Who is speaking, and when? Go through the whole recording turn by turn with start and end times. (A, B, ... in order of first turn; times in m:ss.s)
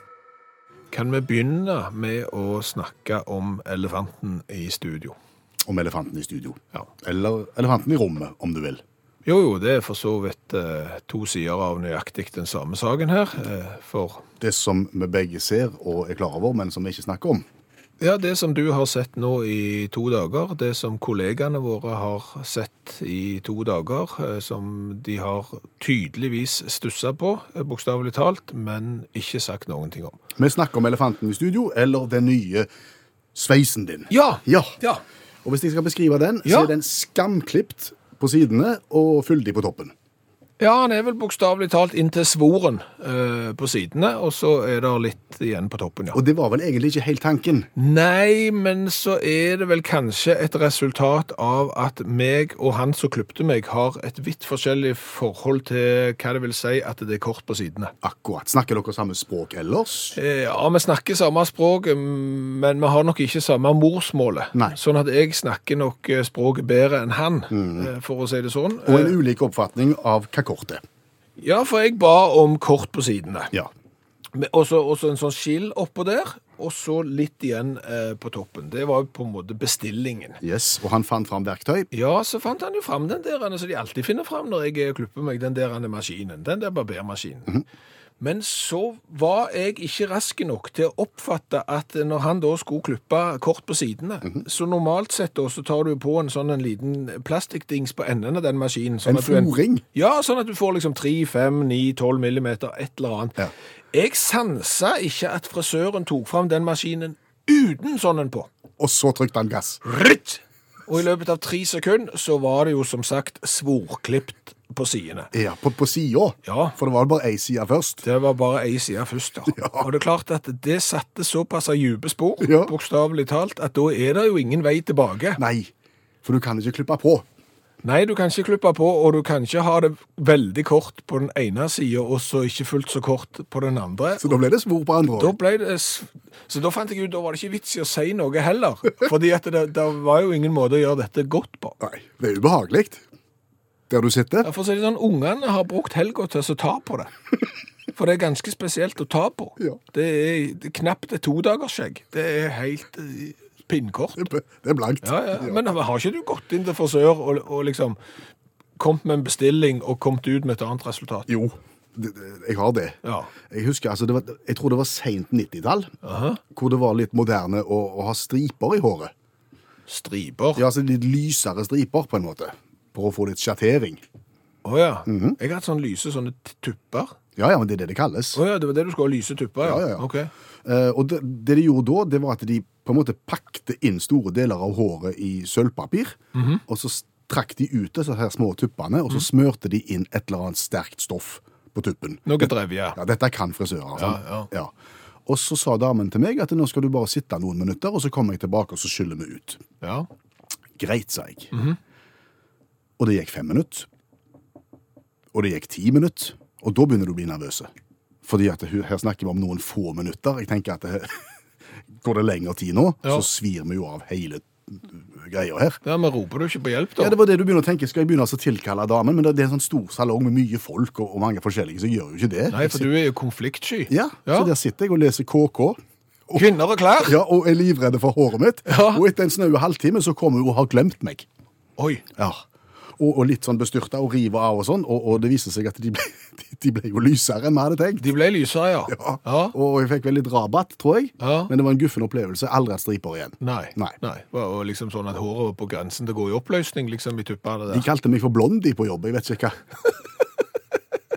0:00.9-0:05.2 A
0:05.6-0:08.8 B
0:09.2-0:14.2 A
0:14.4-0:17.4 B
0:18.0-0:30.2 A
0:30.4-0:32.7 B
0:33.3-0:34.7 B
0:34.1-0:35.0 A
0:35.4-0:39.9 B
0:36.4-0:36.7 A
0:40.6-0:46.2 A
0:46.1-0:47.7 B
0:47.8-0:57.9 A
0:58.0-1:00.2 B
1:00.1-1:09.2 A
1:07.5-1:07.9 B
1:08.8-1:10.8 B
1:11.4-1:13.5 A
1:14.3-1:20.4 A
1:20.4-1:21.9 B
1:21.9-1:27.6 A
1:28.2-1:48.5 A
1:39.0-1:39.8 B
1:48.8-1:49.8 B
1:49.8-1:55.3 A
1:55.3-1:58.0 B
1:56.4-1:56.8 A
1:58.0-2:05.4 A
1:59.5-1:59.9 B
2:02.4-2:02.7 B
2:05.4-2:05.7 B
2:06.2-2:07.2 B
2:07.8-2:14.4 A
2:14.2-2:15.4 B
2:15.2-2:21.8 A
2:21.8-2:23.0 B
2:23.9-2:24.5 B
2:24.4-2:27.1 A
2:27.9-2:34.3 A
2:34.2-2:35.7 B
2:35.0-2:38.0 A
2:38.8-2:41.3 A
2:41.3-2:45.9 B
2:43.0-2:43.3 A
2:46.0-2:46.4 A
2:46.5-2:49.1 B
2:49.9-2:50.6 A
2:50.6-2:54.0 B
2:54.6-2:57.2 A
2:55.0-2:55.4 B
2:57.4-2:58.4 B
2:58.3-3:00.3 A
2:59.6-3:00.0 B
3:00.6-3:14.7 B
3:06.3-3:06.6 A
3:12.2-3:13.0 A
3:14.0-3:14.5 A
3:15.2-3:19.6 B
3:19.8-3:20.1 A
3:20.8-3:21.5 B
3:21.5-3:21.8 A
3:23.0-3:23.9 B
3:25.3-3:27.7 B
3:28.2-3:31.3 B
3:31.9-3:35.8 B
3:35.8-3:37.1 A
3:37.0-3:42.9 B
3:42.5-3:44.5 A
3:43.9-3:46.5 B
3:46.3-3:47.2 A
3:47.0-3:51.3 B
3:48.7-3:49.0 A
3:51.8-3:52.0 A
3:52.2-3:52.4 B
3:53.0-3:58.1 B
3:58.0-3:59.5 A
3:58.9-4:03.9 B
4:01.2-4:01.5 A
4:03.4-4:07.9 A
4:07.7-4:09.7 B